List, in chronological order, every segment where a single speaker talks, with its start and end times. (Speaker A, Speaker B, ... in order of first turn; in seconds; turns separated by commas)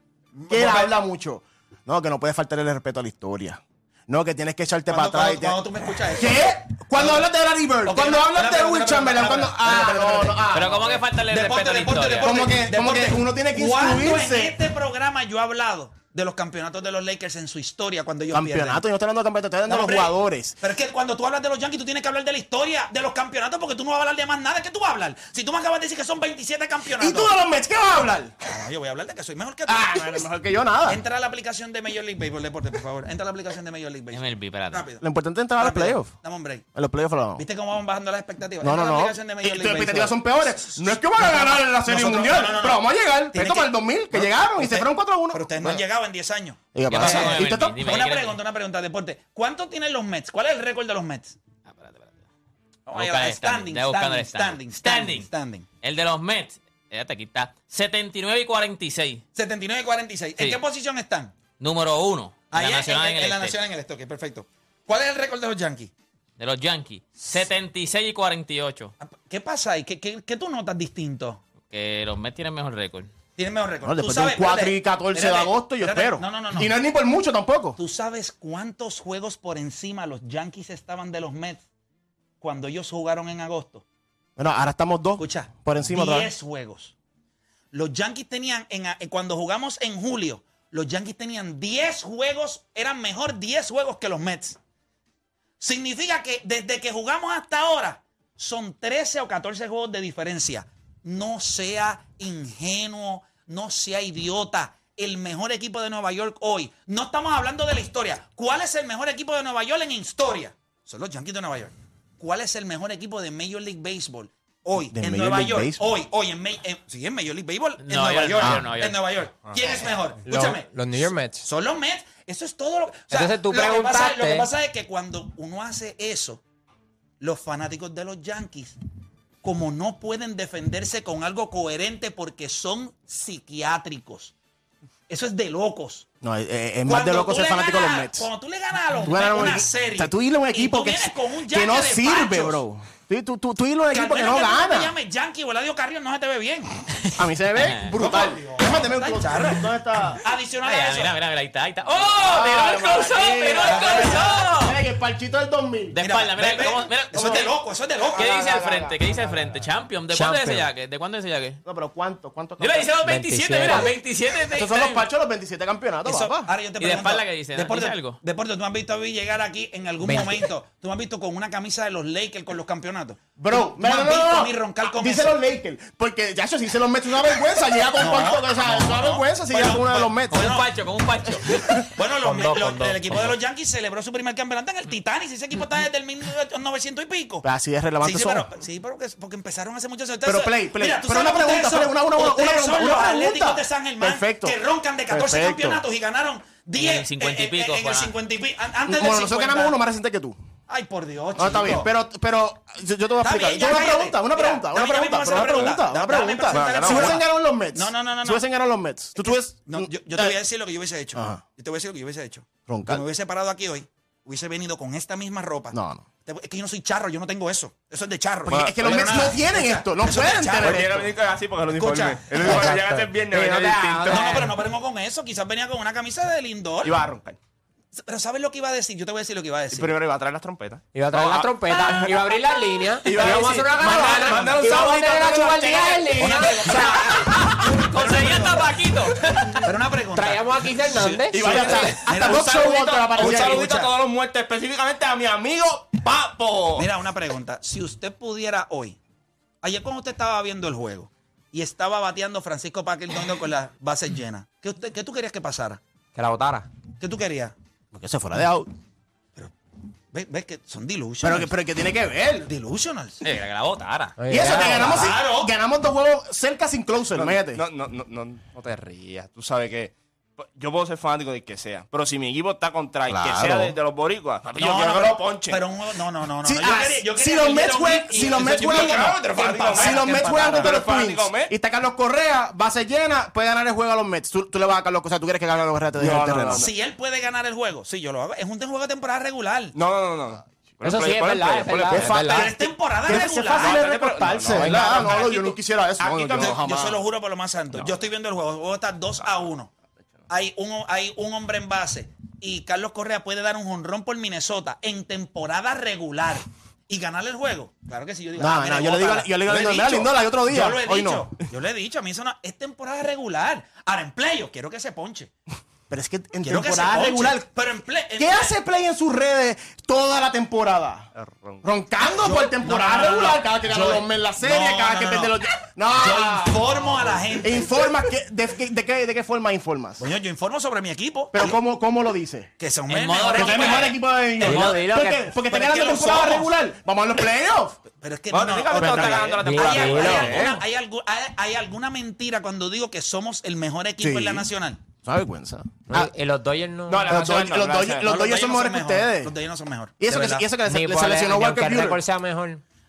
Speaker A: 0.3-0.9, Speaker B: 0.5-11.0, Speaker A: 4.9-7.3, Speaker A: 7.8-10.5, Speaker C: 10.5-12.5, Speaker A: 11.3-18.8, Speaker B: 12.2-14.6, Speaker B: 18.3-20.6, Speaker A: 19.7-27.3, Speaker B: 26.9-28.3, Speaker A: 28.4-30.3, Speaker B: 29.6-31.0, Speaker A: 30.8-35.0, Speaker C: 34.1-34.9, Speaker B: 35.0-36.1, Speaker A: 35.6-36.6, Speaker B: 36.7-37.4, Speaker A: 37.4-51.4, Speaker B: 38.6-45.8, Speaker B: 46.7-48.0, Speaker C: 46.9-48.4, Speaker C: 51.6-52.2, Speaker A: 52.9-55.6, Speaker C: 52.9-55.3, Speaker C: 55.8-59.2, Speaker A: 59.3-61.3, Speaker C: 61.6-63.6, Speaker A: 62.5-65.9, Speaker C: 66.4-68.9, Speaker A: 69.0-71.4, Speaker C: 71.7-73.1, Speaker A: 73.4-76.7, Speaker B: 73.8-77.8, Speaker A: 77.8-81.6, Speaker A: 82.4-83.8, Speaker B: 84.4-86.3, Speaker A: 85.2-86.9, Speaker A: 87.7-94.6, Speaker A: 95.6-120.7, Speaker B: 114.9-115.9, Speaker C: 117.8-119.0, Speaker B: 118.4-118.7, Speaker D: 120.2-121.5, Speaker A: 121.4-126.4, Speaker D: 123.1-124.5, Speaker A: 127.2-128.8, Speaker A: 129.4-134.3, Speaker A: 135.1-136.1, Speaker B: 136.2-138.3, Speaker A: 136.8-142.6, Speaker B: 138.9-144.9, Speaker A: 143.9-146.8, Speaker B: 147.2-150.2, Speaker C: 147.6-147.9, Speaker A: 147.9-149.7, Speaker A: 150.2-151.1, Speaker C: 150.6-154.8, Speaker B: 152.2-156.0, Speaker A: 153.6-154.4, Speaker C: 155.9-157.6, Speaker A: 156.0-158.3, Speaker B: 157.1-157.4, Speaker C: 158.1-161.6, Speaker B: 158.4-159.1, Speaker D: 160.1-160.7, Speaker B: 161.6-162.9, Speaker C: 162.6-165.1, Speaker D: 163.0-163.9, Speaker B: 164.5-166.5, Speaker A: 166.0-175.4, Speaker C: 166.8-168.2, Speaker D: 170.0-170.4, Speaker B: 173.4-180.6, Speaker A: 177.9-180.7, Speaker C: 180.3-183.3, Speaker B: 181.5-181.8, Speaker A: 181.9-187.4, Speaker D: 182.2-183.0, Speaker B: 187.4-188.5, Speaker A: 188.0-199.8, Speaker B: 190.2-194.6, Speaker B: 195.1-195.8, Speaker C: 196.8-198.2, Speaker B: 198.8-200.4, Speaker A: 200.7-201.9, Speaker B: 201.3-210.4, Speaker A: 203.2-207.2, Speaker E: 205.3-205.8, Speaker E: 206.5-207.2, Speaker A: 207.7-208.4, Speaker A: 209.1-221.1, Speaker B: 211.1-211.4, Speaker B: 212.7-213.0, Speaker B: 215.7-216.0, Speaker B: 218.4-221.1, Speaker E: 218.5-219.3, Speaker E: 220.5-224.5, Speaker A: 221.7-222.6, Speaker D: 222.4-224.5, Speaker A: 224.1-227.0, Speaker E: 226.8-227.4, Speaker A: 227.9-230.0, Speaker E: 229.7-232.2, Speaker D: 230.9-237.3, Speaker E: 233.0-236.2, Speaker B: 233.4-236.5, Speaker A: 236.2-238.8, Speaker C: 236.8-239.7, Speaker A: 239.6-243.9, Speaker D: 240.1-241.9, Speaker B: 241.3-243.7, Speaker E: 241.3-246.9, Speaker A: 246.7-249.0, Speaker A: 249.6-255.8, Speaker D: 256.1-256.7, Speaker A: 257.0-257.5, Speaker B: 257.9-258.7, Speaker A: 260.1-261.5, Speaker B: 261.2-262.5, Speaker A: 262.4-263.2, Speaker C: 263.2-264.2, Speaker D: 264.2-265.1, Speaker B: 264.3-267.6, Speaker A: 264.5-265.5, Speaker E: 267.1-275.6, Speaker B: 273.1-273.7, Speaker A: 274.6-280.8, Speaker B: 276.4-279.2, Speaker E: 278.2-281.5, Speaker B: 279.7-286.6, Speaker E: 286.0-286.7, Speaker A: 286.5-289.8, Speaker E: 289.7-292.5, Speaker D: 290.8-292.5, Speaker B: 291.9-297.0, Speaker A: 292.3-295.4, Speaker E: 293.1-297.0, Speaker A: 296.4-299.7, Speaker A: 300.3-315.3, Speaker B: 308.3-311.3, Speaker B: 315.9-317.5, Speaker A: 316.4-318.5, Speaker B: 318.2-321.1, Speaker E: 321.1-321.6, Speaker B: 321.6-330.1, Speaker A: 322.2-325.3, Speaker A: 325.9-327.9, Speaker A: 330.0-331.6, Speaker B: 331.3-332.5, Speaker A: 332.6-334.8, Speaker C: 332.9-334.0, Speaker B: 333.3-337.8, Speaker D: 334.4-335.3, Speaker A: 335.4-336.5, Speaker A: 338.0-344.8, Speaker E: 338.3-340.6, Speaker B: 338.8-340.6, Speaker D: 339.4-340.5, Speaker B: 344.0-344.5, Speaker B: 345.0-346.1, Speaker D: 345.9-347.4, Speaker E: 346.9-348.1, Speaker B: 347.1-349.3, Speaker A: 348.0-350.4, Speaker B: 350.0-352.0, Speaker D: 350.6-352.6